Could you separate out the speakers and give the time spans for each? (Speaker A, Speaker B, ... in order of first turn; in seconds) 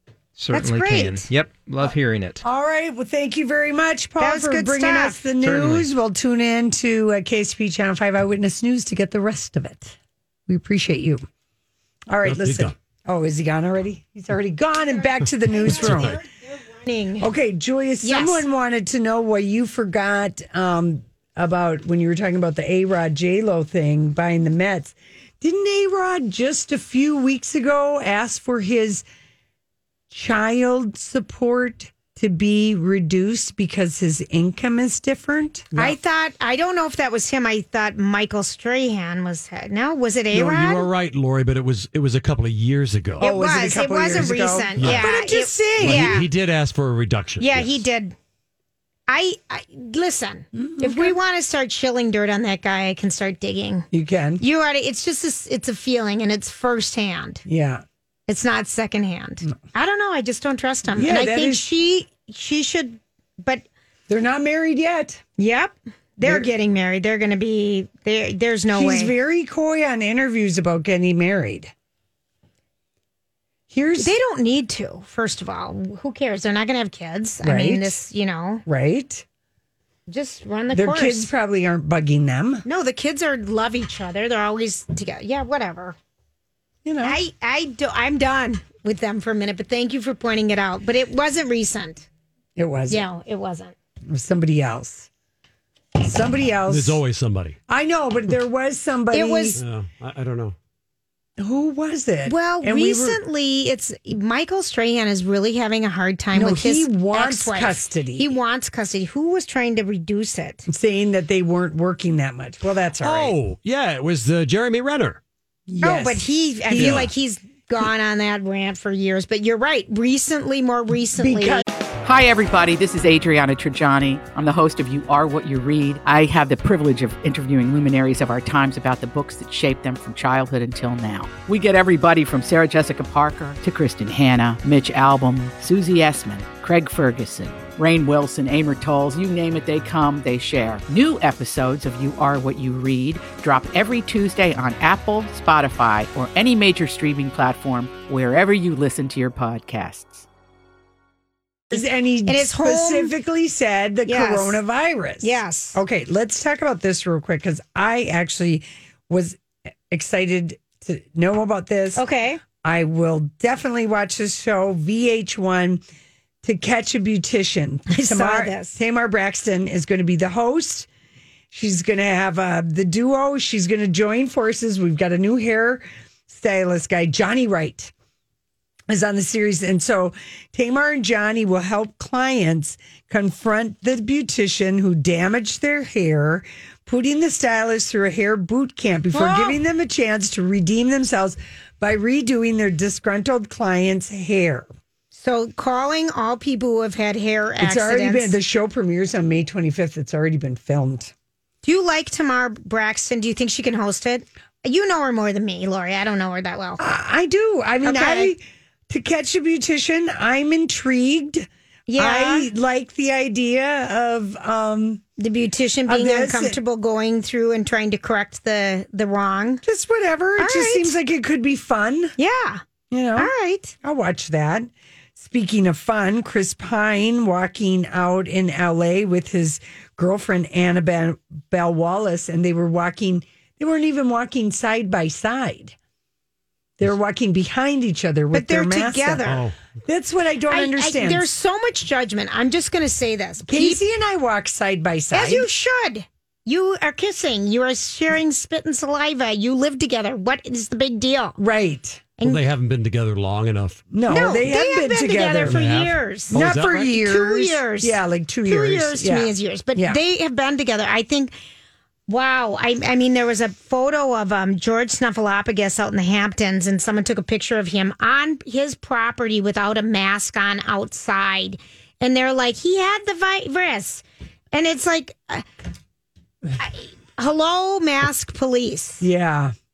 Speaker A: 0.4-2.4, 5.4-5.8
Speaker B: 0.5-1.3, 4.2-5.2, 14.9-17.3, 18.0-18.4, 35.7-40.9, 43.2-46.3, 47.4-48.1, 49.1-53.9, 54.4-57.4, 58.3-63.6, 65.4-69.1, 74.0-78.6, 80.1-81.3, 82.6-86.0, 87.0-92.1, 92.9-93.7, 99.1-99.6, 102.2-110.7, 115.8-121.6, 151.7-153.1, 154.1-154.6, 155.2-155.8, 161.9-162.4, 167.9-168.8, 189.1-189.6, 195.1-198.3, 201.6-206.8, 207.8-208.3, 211.9-212.5, 215.2-219.6, 220.4-220.9, 222.2-222.6, 223.2-223.7, 238.3-239.4, 240.5-243.8, 245.1-251.4, 252.2-252.4, 254.1-261.3, 262.1-275.4, 276.6-279.0
Speaker C: 2.4-10.0, 10.5-11.2, 12.1-16.2, 17.2-29.0, 30.1-36.0, 43.2-46.2, 50.5-51.2, 53.9-54.4, 57.5-57.8, 60.9-61.6, 64.1-65.2, 66.2-66.5, 68.7-71.7, 73.7-74.1, 77.4-78.0, 78.7-79.2, 80.7-82.6, 86.8-87.2, 92.6-93.1, 94.1-95.1, 96.0-97.0, 97.7-99.6, 101.4-103.2, 106.3-108.3, 110.7-113.4, 115.7-117.1, 121.2-121.6, 151.7-162.0, 162.6-165.8, 166.4-170.9, 171.5-177.9, 178.9-194.7, 197.6-201.1, 206.8-215.0, 215.9-216.6, 219.6-222.1, 222.9-223.3, 223.8-235.7, 236.8-239.2, 239.9-241.3, 243.4-245.5, 251.4-252.1, 253.9-255.6, 256.3-260.0, 279.0-279.5
Speaker D: 12.2-12.7, 15.6-16.2, 40.3-43.3, 44.8-45.2, 45.8-47.9, 96.7-97.6, 99.6-100.5, 113.0-115.2, 116.7-117.1, 239.2-239.5, 252.2-254.4, 255.4-256.9
Speaker E: 122.0-150.2